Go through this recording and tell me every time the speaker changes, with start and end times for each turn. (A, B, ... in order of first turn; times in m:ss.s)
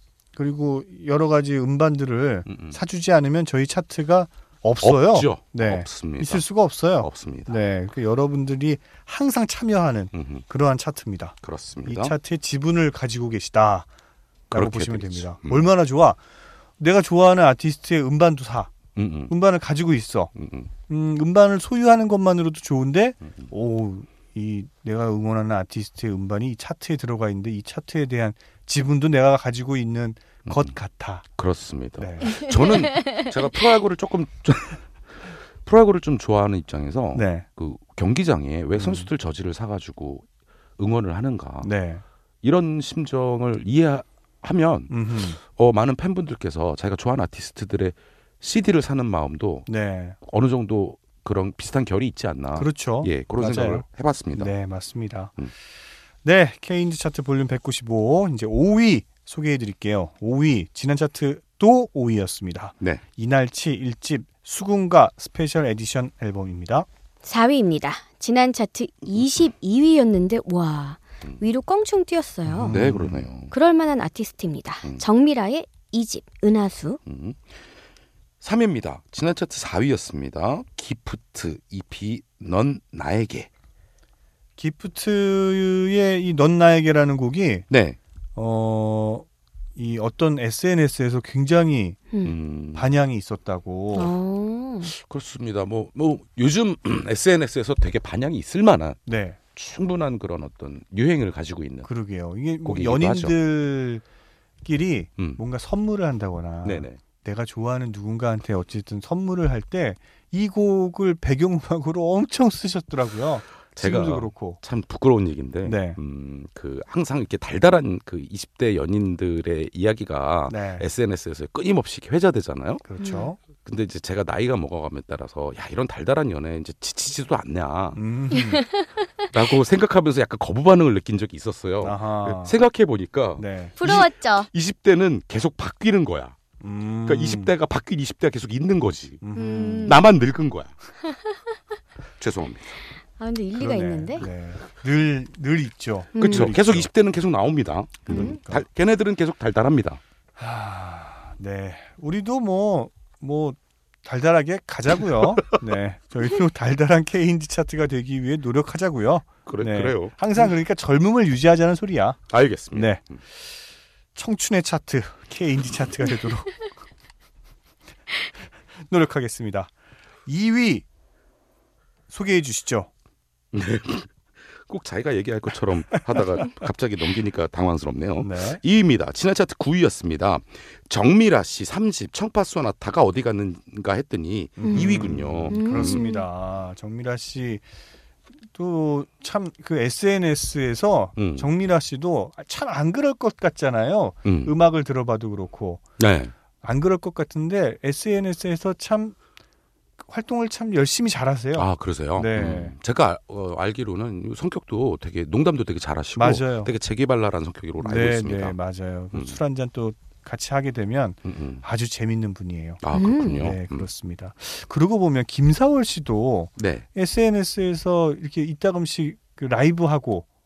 0:00.3-0:13.9 A
0:02.5-0:02.8 B
0:04.8-0:06.4 B
0:07.0-0:07.6 B
0:10.1-0:10.4 B
0:11.4-0:12.1 B
0:14.5-0:15.7 B
0:14.5-0:16.2 A
0:16.8-0:20.3 A
0:19.0-0:19.3 B
0:20.3-0:20.7 B
0:20.9-0:31.2 A
0:30.5-0:30.7 B
0:31.4-0:40.2 B
0:32.0-0:32.5 A
0:37.1-0:37.4 A
0:38.8-0:39.1 A
0:40.8-0:41.7 B
0:41.6-0:42.0 A
0:42.4-0:49.7 B
0:44.9-0:45.4 A
0:49.7-0:50.2 A
0:50.2-0:54.5 B
0:52.5-0:55.4 A
0:56.2-1:06.9 A
1:07.2-1:12.8 C
1:12.4-1:13.3 A
1:12.7-1:13.5 B
1:13.5-1:17.0 C
1:17.0-1:17.5 B
1:18.4-1:23.5 B
1:24.6-1:27.7 A
1:27.7-1:28.0 B
1:28.4-1:32.0 A
1:32.2-1:32.9 B
1:32.7-1:34.1 A
1:33.9-1:34.9 C
1:34.8-1:39.0 B
1:39.1-1:39.4 A
1:39.5-1:41.9 B
1:41.8-1:44.0 A
1:42.6-1:43.4 B
1:44.6-1:54.6 A
1:46.6-1:47.0 B
1:53.7-2:02.8 B
1:55.6-1:56.0 A
2:00.5-2:00.9 A
2:02.8-2:03.4 A
2:03.0-2:03.3 C
2:03.6-2:08.0 B
2:07.9-2:08.6 A
2:08.4-2:09.0 C
2:09.3-2:16.4 B
2:11.8-2:12.6 A
2:13.4-2:13.8 A
2:13.8-2:14.5 C
2:16.6-2:17.5 A
2:17.0-2:19.2 B
2:19.2-2:19.9 A
2:19.4-2:20.0 C
2:19.8-2:20.7 B
2:21.1-2:21.4 C
2:22.2-2:22.8 B
2:23.2-2:24.2 C
2:23.5-2:26.9 A
2:26.1-2:26.5 C
2:26.2-2:30.0 B
2:28.0-2:28.6 A
2:28.1-2:28.4 C
2:30.4-2:43.0 A
2:39.4-2:40.2 B
2:42.3-2:43.2 B
2:44.1-2:46.7 A
2:48.8-2:49.7 A
2:50.2-2:50.8 A
2:52.1-2:52.9 A
2:53.5-3:06.0 B
2:58.2-2:58.6 A
3:04.6-3:07.6 A
3:04.6-3:06.2 C
3:08.5-3:15.8 A
3:11.2-3:11.5 B
3:14.2-3:14.5 B
3:16.0-3:16.3 B
3:16.6-3:19.2 A
3:20.0-3:22.7 A
3:21.5-3:28.6 B
3:26.2-3:26.7 A
3:27.8-3:40.3 A
3:29.1-3:29.4 B
3:31.2-3:31.6 B
3:32.8-3:33.9 B
3:32.9-3:33.4 C
3:36.6-3:36.8 B